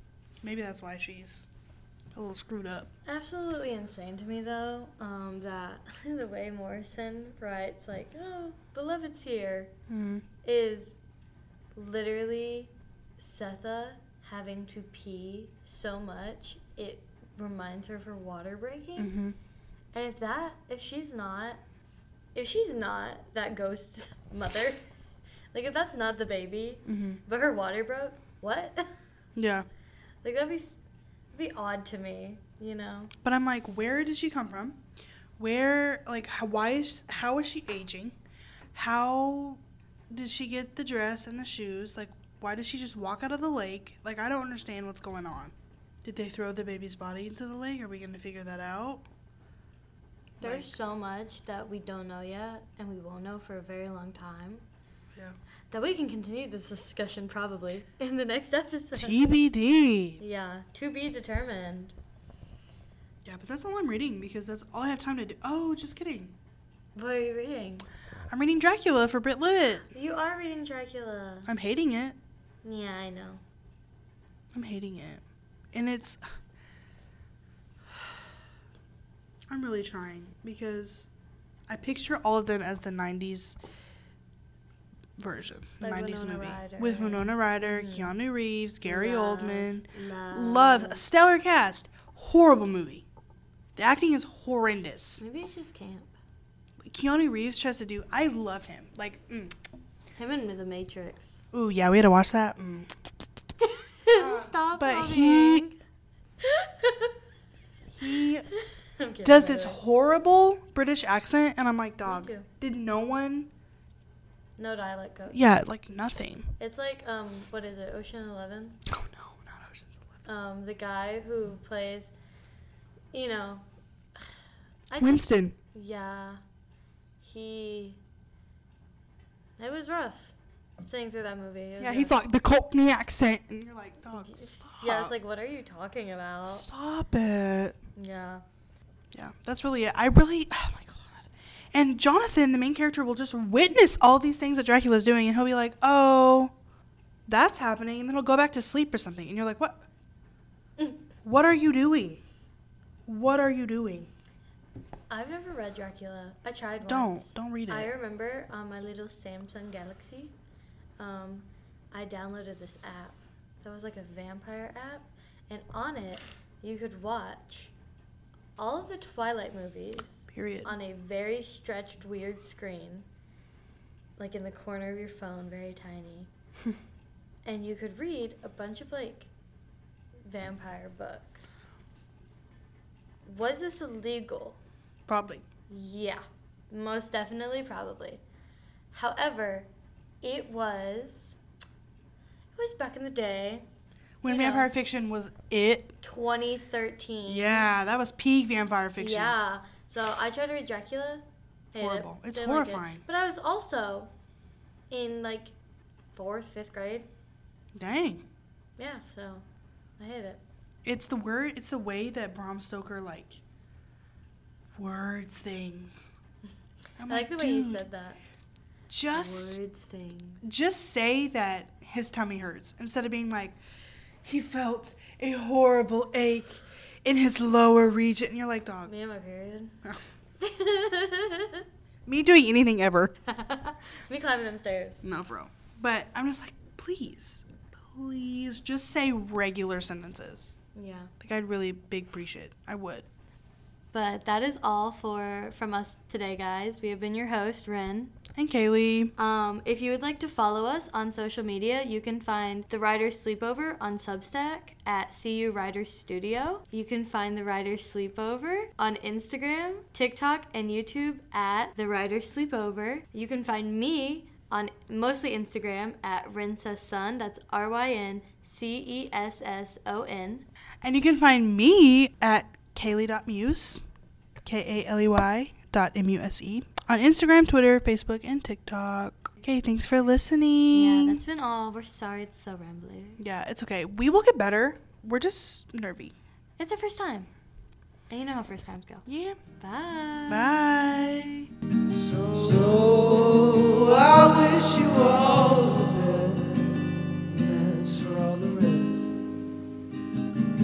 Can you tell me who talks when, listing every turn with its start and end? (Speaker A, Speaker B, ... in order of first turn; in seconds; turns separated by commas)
Speaker A: 0.4-1.5, Speaker A: 2.1-2.9, Speaker B: 3.1-9.7, Speaker A: 9.9-10.2, Speaker B: 10.4-11.0, Speaker B: 11.8-19.1, Speaker A: 19.0-19.4, Speaker B: 19.9-21.6, Speaker B: 22.4-24.8, Speaker B: 25.5-29.0, Speaker A: 26.9-27.2, Speaker A: 29.4-29.7, Speaker B: 30.2-30.8, Speaker B: 31.3-33.1, Speaker A: 33.2-34.8, Speaker A: 35.4-38.2, Speaker A: 38.7-49.0, Speaker A: 50.4-50.8, Speaker B: 50.4-54.6, Speaker B: 55.7-59.3, Speaker A: 58.9-60.2, Speaker B: 60.2-61.9, Speaker A: 63.2-66.4, Speaker B: 67.0-67.9, Speaker A: 68.3-69.9, Speaker B: 69.9-71.5, Speaker A: 71.5-72.2, Speaker B: 72.6-73.4, Speaker A: 74.5-76.2, Speaker A: 79.5-81.1, Speaker A: 81.7-83.6, Speaker A: 85.2-93.1, Speaker B: 85.8-88.2, Speaker B: 88.8-91.0, Speaker A: 93.8-95.2, Speaker B: 95.2-96.2, Speaker A: 96.8-99.6, Speaker B: 100.2-101.4, Speaker A: 101.5-103.0, Speaker B: 103.6-105.8, Speaker A: 104.1-105.7, Speaker B: 106.4-107.2, Speaker A: 107.9-108.5, Speaker B: 108.2-109.8, Speaker A: 109.2-113.5, Speaker B: 112.0-112.5, Speaker B: 114.6-115.4, Speaker A: 115.3-116.5, Speaker B: 116.6-118.8, Speaker A: 118.9-120.2, Speaker B: 120.3-122.1, Speaker B: 123.1-123.7, Speaker B: 124.9-126.4, Speaker A: 125.0-125.6, Speaker B: 127.2-128.0, Speaker B: 129.6-132.2, Speaker A: 131.8-135.2, Speaker B: 134.1-136.7, Speaker A: 136.5-137.8, Speaker B: 138.0-138.4, Speaker A: 139.1-146.5, Speaker A: 147.3-149.9, Speaker A: 151.2-152.2, Speaker A: 153.1-154.1, Speaker B: 155.1-160.3, Speaker A: 156.8-157.9, Speaker B: 161.0-167.7, Speaker B: 168.6-173.1, Speaker A: 170.3-170.7, Speaker B: 174.2-176.3, Speaker B: 177.4-179.3, Speaker B: 180.3-181.7, Speaker B: 183.2-184.6, Speaker A: 185.1-185.5, Speaker B: 185.7-188.2, Speaker B: 188.9-189.7, Speaker B: 190.2-191.4, Speaker B: 192.6-193.7, Speaker A: 194.2-195.9, Speaker B: 194.3-194.7, Speaker B: 196.0-197.7, Speaker A: 197.3-199.4, Speaker B: 199.0-204.1, Speaker A: 201.8-203.1, Speaker B: 204.9-205.5, Speaker B: 206.1-207.1, Speaker A: 207.7-208.3, Speaker B: 208.8-209.4, Speaker B: 210.0-210.4, Speaker A: 210.8-213.4, Speaker A: 214.8-216.1, Speaker A: 217.0-217.9, Speaker B: 217.1-218.2, Speaker A: 218.9-219.6, Speaker B: 219.1-220.4, Speaker A: 220.4-223.6, Speaker A: 224.2-228.9, Speaker B: 228.9-229.8, Speaker B: 230.4-231.7, Speaker A: 232.1-233.1, Speaker B: 233.3-235.0, Speaker A: 235.0-240.6, Speaker B: 240.8-241.1, Speaker A: 241.2-243.1, Speaker B: 243.9-248.1, Speaker A: 248.3-249.1, Speaker B: 249.2-270.5, Speaker A: 270.8-273.8, Speaker A: 274.4-281.2, Speaker B: 280.7-283.2, Speaker A: 283.2-286.1, Speaker B: 286.6-287.3, Speaker B: 288.1-289.1, Speaker A: 289.1-289.4, Speaker B: 289.6-291.5, Speaker A: 290.3-291.3, Speaker C: 291.9-299.2